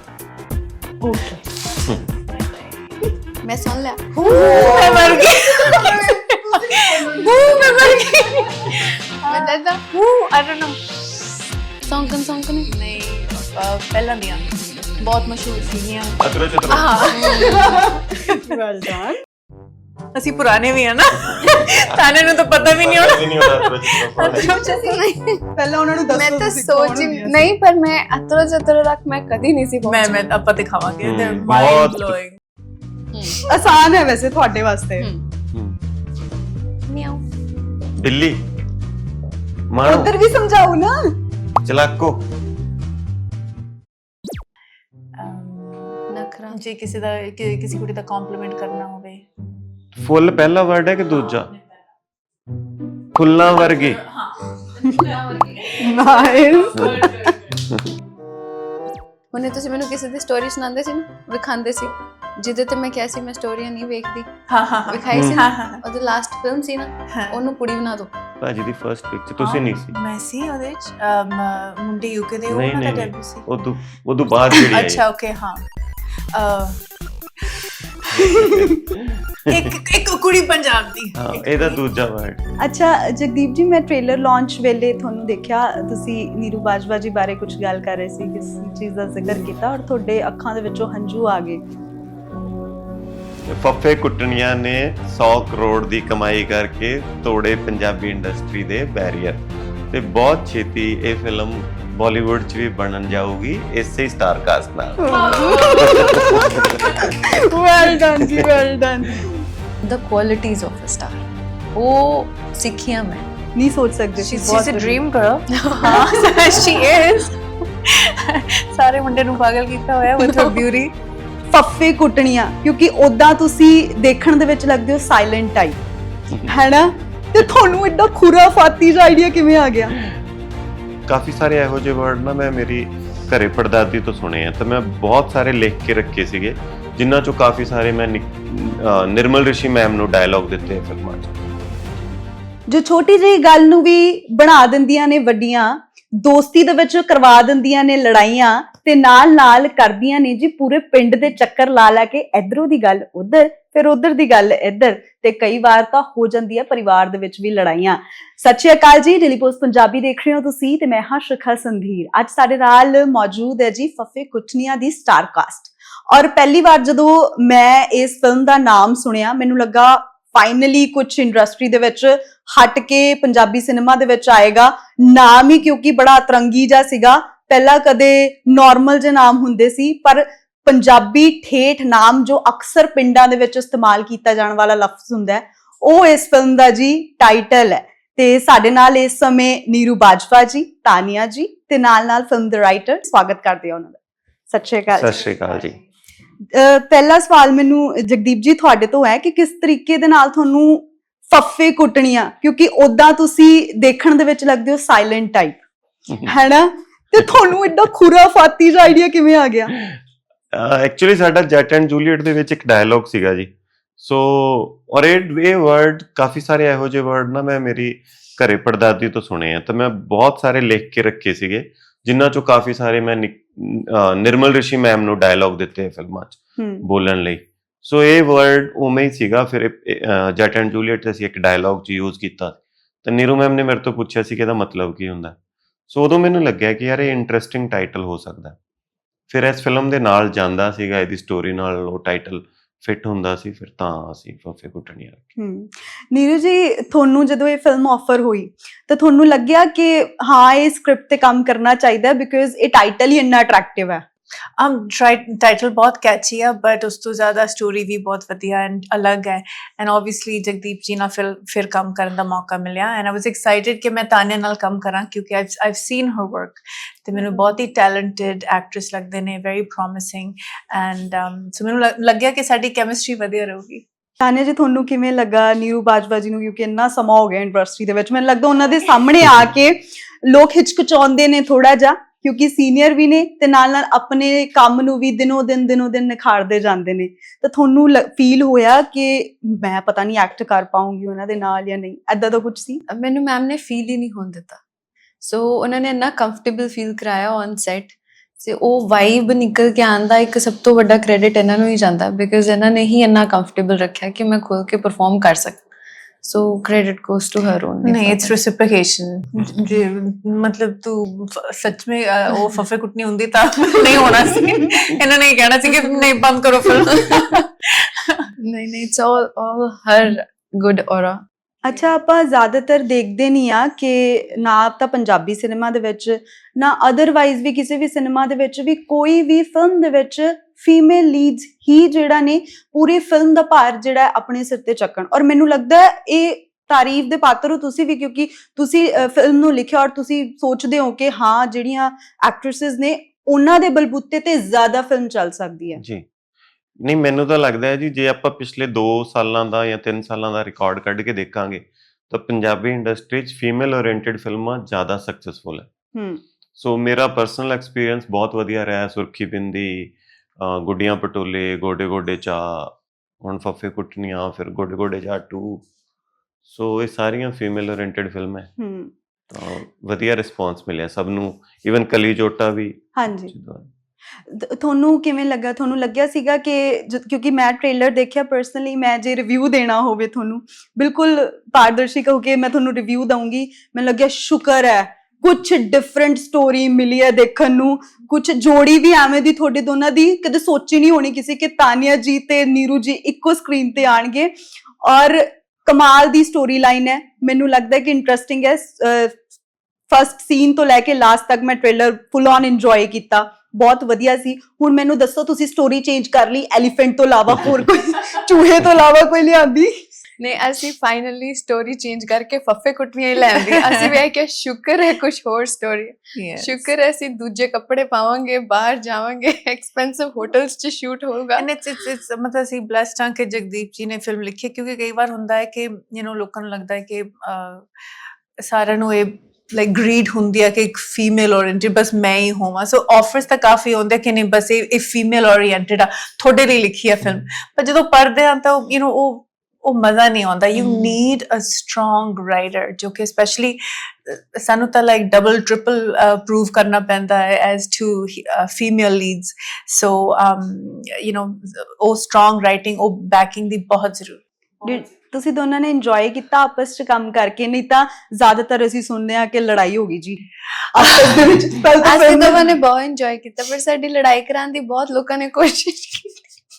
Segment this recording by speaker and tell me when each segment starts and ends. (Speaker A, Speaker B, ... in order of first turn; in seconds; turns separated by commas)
Speaker A: 1.0-1.4, Speaker B: 3.4-4.1, Speaker A: 4.1-8.1, Speaker C: 4.4-10.8, Speaker B: 7.2-8.0, Speaker B: 8.7-9.8, Speaker B: 11.8-12.8, Speaker C: 12.7-18.5, Speaker D: 16.2-17.2, Speaker B: 17.0-17.9, Speaker A: 17.4-19.2, Speaker C: 20.1-25.0, Speaker D: 21.5-24.6, Speaker B: 24.4-25.4, Speaker A: 25.5-27.5, Speaker B: 26.1-30.3, Speaker C: 29.9-32.4, Speaker D: 31.0-32.2, Speaker B: 33.1-33.4, Speaker A: 33.5-35.1, Speaker B: 35.0-35.2, Speaker D: 35.5-35.8, Speaker B: 36.9-37.2, Speaker D: 38.0-38.4, Speaker D: 39.7-40.1, Speaker A: 39.8-41.1, Speaker D: 41.6-42.2, Speaker C: 45.1-49.2, Speaker B: 46.1-46.6, Speaker D: 49.9-51.5, Speaker C: 51.1-51.7, Speaker D: 53.1-54.0, Speaker C: 53.4-57.6, Speaker B: 54.8-56.5, Speaker A: 55.8-57.3, Speaker D: 56.7-57.9, Speaker B: 59.3-64.3, Speaker C: 64.5-65.8, Speaker B: 64.9-68.1, Speaker D: 65.1-65.4, Speaker C: 67.1-67.4, Speaker D: 68.4-69.9, Speaker C: 69.4-73.4, Speaker D: 72.5-75.0, Speaker C: 74.7-75.6, Speaker C: 76.3-76.8, Speaker D: 78.1-79.7, Speaker A: 78.2-78.8, Speaker C: 79.5-81.8, Speaker D: 81.2-82.5, Speaker A: 82.6-91.6, Speaker D: 93.5-107.4, Speaker A: 105.0-109.4, Speaker C: 105.1-107.1, Speaker B: 105.4-105.7, Speaker D: 108.2-108.5, Speaker B: 109.8-113.3, Speaker A: 113.5-115.0, Speaker C: 114.2-120.9, Speaker B: 115.5-116.8, Speaker B: 120.2-120.5, Speaker A: 121.5-125.8, Speaker A: 126.4-130.0, Speaker D: 131.1-141.4, Speaker A: 142.7-194.0, Speaker A: 194.5-195.4, Speaker D: 194.9-195.8, Speaker A: 196.5-205.6, Speaker A: 206.2-209.7, Speaker D: 210.5-235.3, Speaker A: 226.6-226.8, Speaker D: 235.9-238.6, Speaker D: 239.3-245.2, Speaker A: 245.4-254.0, Speaker C: 254.6-273.8, Speaker A: 274.2-292.8, Speaker B: 292.9-294.6, Speaker B: 295.2-305.6, Speaker B: 306.2-308.4, Speaker C: 307.8-318.3, Speaker B: 316.9-317.3, Speaker B: 318.4-321.2, Speaker A: 321.6-345.8, Speaker D: 345.8-346.1, Speaker D: 346.8-355.7, Speaker A: 355.9-356.2, Speaker D: 356.6-365.6, Speaker D: 366.5-368.5, Speaker A: 368.6-368.9, Speaker D: 369.3-373.7, Speaker A: 372.9-373.3, Speaker A: 374.2-399.2, Speaker A: 399.9-409.9, Speaker B: 410.2-421.5, Speaker C: 413.3-414.0, Speaker C: 416.1-416.7, Speaker C: 421.4-427.7, Speaker C: 428.4-454.8, Speaker B: 440.6-440.9, Speaker A: 454.6-462.5, Speaker C: 460.8-461.7, Speaker B: 461.8-466.3